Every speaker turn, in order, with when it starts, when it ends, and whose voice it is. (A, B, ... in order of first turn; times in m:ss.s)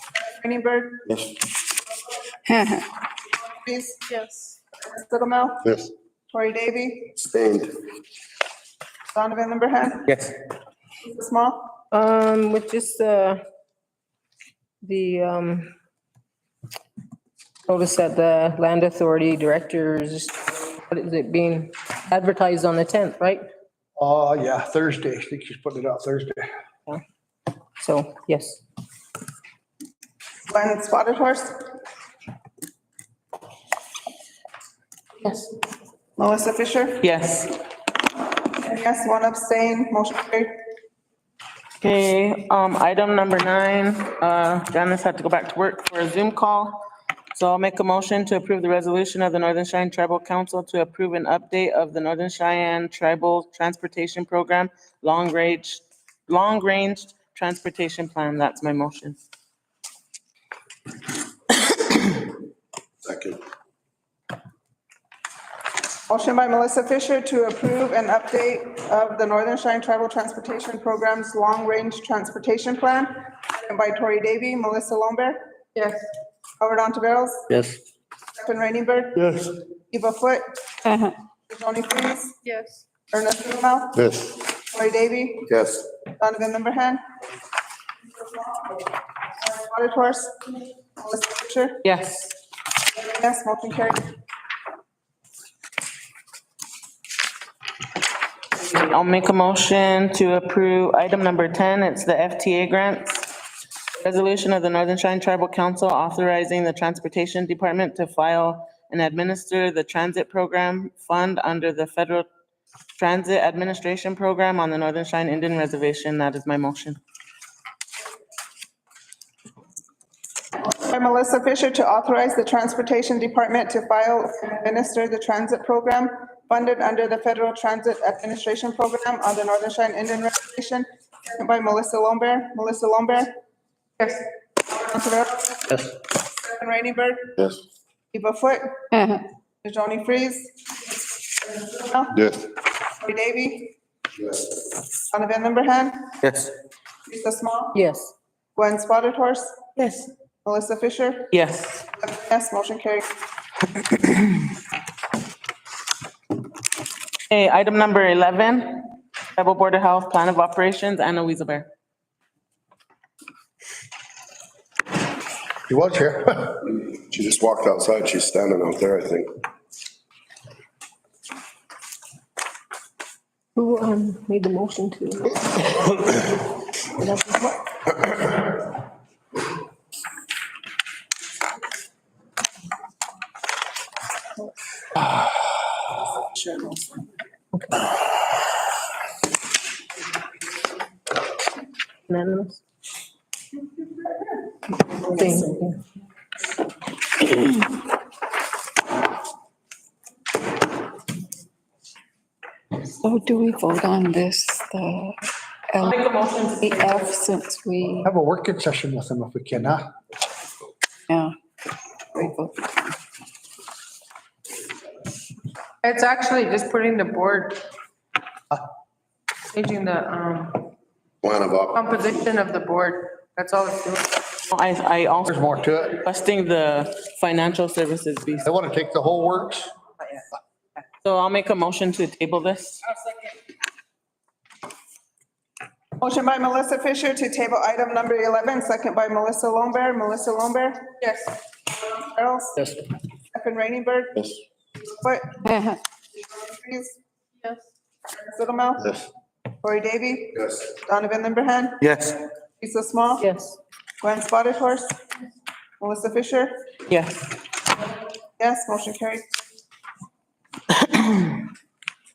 0:00.2-0:01.0 A
0:02.5-0:02.8 B
0:03.6-0:04.0 A
0:04.8-0:05.6 A
0:06.3-0:07.1 A
0:07.2-0:07.6 C
0:09.1-0:10.1 A
0:11.0-0:11.7 A
0:11.9-0:13.4 D
0:14.8-0:15.7 D
0:17.7-0:23.4 D
0:24.0-0:26.5 E
0:27.8-0:28.6 D
0:30.5-0:31.6 A
0:36.2-0:37.0 A
0:37.0-0:37.5 F
0:38.5-0:40.5 A
0:41.8-0:46.8 F
0:47.3-0:59.2 F
1:03.0-1:03.4 C
1:06.1-1:15.5 A
1:15.8-1:16.0 G
1:16.6-1:17.4 A
1:18.4-1:19.3 A
1:19.9-1:20.4 A
1:21.5-1:22.3 A
1:22.4-1:22.8 G
1:23.1-1:24.0 A
1:24.7-1:25.5 A
1:26.1-1:27.0 A
1:29.4-1:31.8 A
1:31.8-1:32.3 F
1:32.9-1:34.1 A
1:38.6-1:43.3 F
1:44.0-1:52.3 F
1:53.0-1:57.0 F
2:00.7-2:13.3 A
2:14.7-2:15.6 A
2:16.4-2:17.3 A
2:18.1-2:18.7 A
2:19.6-2:22.2 A
2:23.0-2:23.7 A
2:25.1-2:26.0 A
2:27.0-2:27.8 A
2:27.7-2:28.1 D
2:28.6-2:29.6 A
2:29.8-2:30.0 F
2:30.4-2:31.3 A
2:31.3-2:31.8 F
2:32.0-2:33.0 A
2:37.3-2:41.7 F
2:45.7-2:46.6 E
2:46.8-2:49.3 C
2:53.5-2:55.7 D
3:12.1-3:12.6 D
3:15.0-3:15.8 D
3:23.0-3:25.2 B
3:25.8-3:27.1 F
3:26.6-3:28.0 B
3:28.0-3:29.9 E
3:32.2-3:33.0 B
3:35.8-3:37.6 G
3:39.5-3:40.7 G
3:41.2-3:41.8 C
3:41.8-3:44.1 G
3:44.5-3:48.5 F
3:45.3-3:46.0 E
3:48.4-3:49.7 E
3:51.0-3:53.0 F
3:56.0-4:01.0 A
4:01.7-4:02.6 A
4:03.3-4:04.2 A
4:04.9-4:05.4 A
4:06.2-4:07.0 A
4:08.2-4:08.9 A
4:09.6-4:11.8 A
4:12.6-4:13.3 A
4:13.2-4:13.6 D
4:14.0-4:14.9 A
4:15.8-4:16.5 A
4:16.9-4:17.3 F
4:18.4-4:19.2 A
4:20.9-4:21.3 F